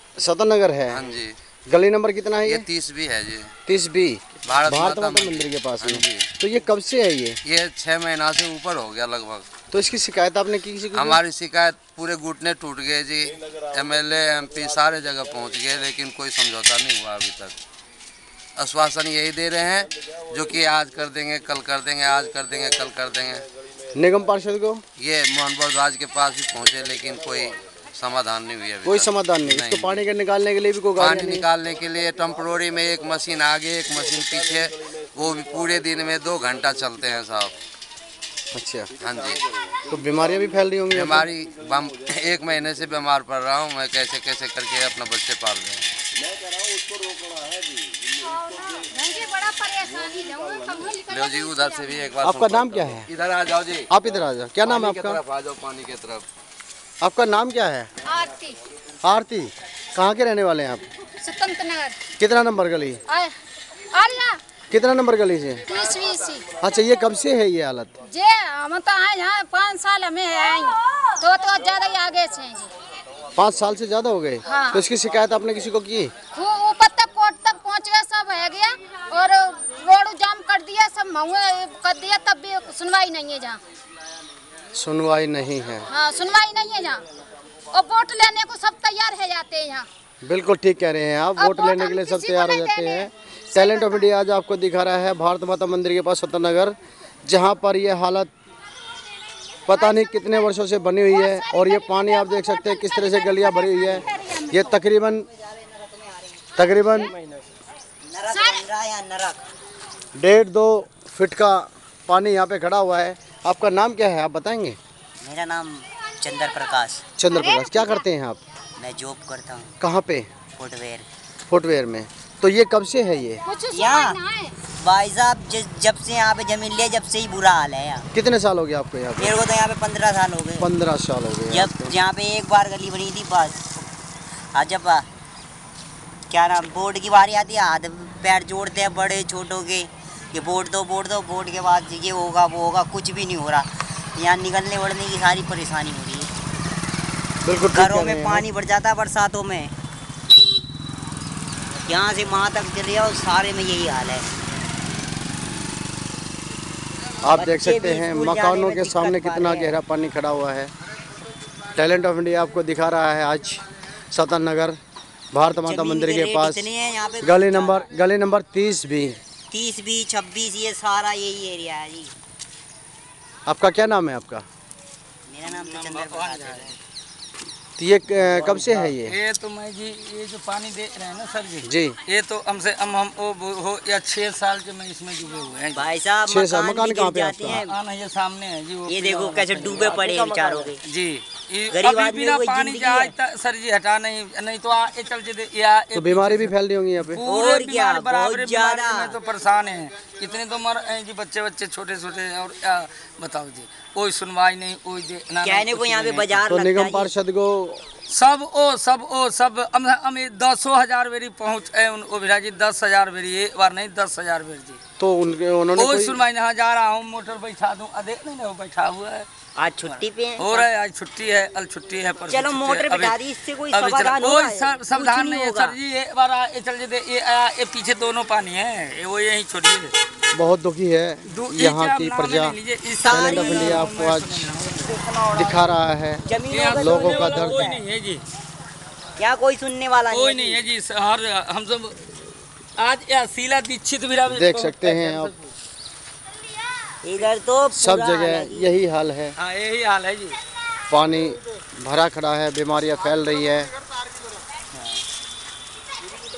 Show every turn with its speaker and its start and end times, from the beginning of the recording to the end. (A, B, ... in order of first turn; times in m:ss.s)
0:00.2-0:01.0 A
0:00.9-0:01.3 B
0:01.7-0:02.6 A
0:02.4-0:03.5 B
0:03.7-0:07.4 A
0:04.4-0:06.3 B
0:07.4-0:09.4 B
0:09.7-0:11.2 A
0:10.9-0:17.6 B
0:18.6-0:23.4 B
0:23.9-0:24.8 A
0:25.0-0:30.0 B
0:28.8-0:31.4 A
0:31.0-0:37.5 B
0:38.5-0:38.9 A
0:39.0-0:39.4 B
0:39.9-0:41.3 A
0:40.9-0:45.9 B
0:48.1-0:52.1 C
0:51.1-0:53.9 B
0:52.2-0:53.1 A
0:53.9-0:55.2 A
0:54.6-0:56.2 B
0:57.0-0:57.9 A
0:58.0-0:58.6 C
0:59.0-1:00.8 A
1:01.2-1:02.0 C
1:02.2-1:03.0 A
1:03.1-1:03.3 C
1:03.9-1:04.4 C
1:04.7-1:05.6 A
1:05.7-1:06.5 C
1:06.6-1:07.9 A
1:08.0-1:12.7 C
1:13.3-1:16.1 A
1:14.4-1:14.8 C
1:16.3-1:23.6 C
1:24.7-1:25.9 A
1:25.9-1:27.0 C
1:27.7-1:29.9 C
1:30.2-1:38.3 A
1:31.4-1:34.1 C
1:39.7-1:45.2 A
1:39.7-1:40.3 C
1:41.0-1:44.8 C
1:45.3-1:46.5 D
1:46.6-1:47.1 A
1:48.0-1:49.4 D
1:48.2-1:48.6 C
1:50.2-1:54.8 A
1:55.2-1:57.0 D
1:57.2-1:58.4 A
1:57.3-1:58.0 C
1:58.8-1:59.7 D
1:59.8-2:00.3 A
2:00.6-2:01.1 D
2:01.5-2:03.4 A
2:03.4-2:04.6 C
2:03.7-2:08.1 D
2:08.1-2:09.4 A
2:09.2-2:10.7 D
2:10.6-2:11.9 A
2:11.5-2:13.8 D
2:14.5-2:15.0 D
2:16.3-2:26.3 D
2:27.4-2:28.4 A
2:27.7-2:29.7 D
2:31.8-2:34.2 D
2:37.2-2:40.7 A
2:37.3-2:39.8 D
2:41.8-2:44.8 A
2:45.3-2:46.6 A
2:45.6-2:47.9 D
2:47.2-2:49.2 A
2:49.5-2:52.1 D
2:53.5-2:54.4 A
2:55.3-2:56.8 D
2:55.4-2:56.8 E
2:57.8-2:59.2 A
2:58.2-3:05.9 E
3:01.6-3:02.0 A
3:05.7-3:07.8 D
3:06.2-3:07.6 A
3:07.6-3:26.4 E
3:08.9-3:10.8 D
3:11.7-3:13.1 D
3:15.9-3:17.2 A
3:17.2-3:19.1 D
3:25.4-3:27.1 D
3:26.5-3:27.8 A
3:28.1-3:34.8 E
3:35.0-3:36.2 A
3:35.8-3:39.3 E
3:39.6-3:40.6 D
3:39.8-3:43.2 E
3:42.3-3:45.8 D
3:43.7-3:49.9 E
3:50.3-3:52.6 A
3:51.3-3:55.6 E
3:53.0-3:53.8 D
3:53.1-3:54.4 A
3:55.3-3:57.6 A
3:56.2-3:57.8 D
3:56.5-3:58.2 E
3:59.2-4:00.6 D
4:00.1-4:02.1 E
4:02.8-4:05.5 E
4:04.3-4:05.3 A
4:07.0-4:08.7 D
4:07.7-4:09.3 A
4:09.4-4:10.4 E
4:10.9-4:13.7 A
4:14.7-4:15.0 E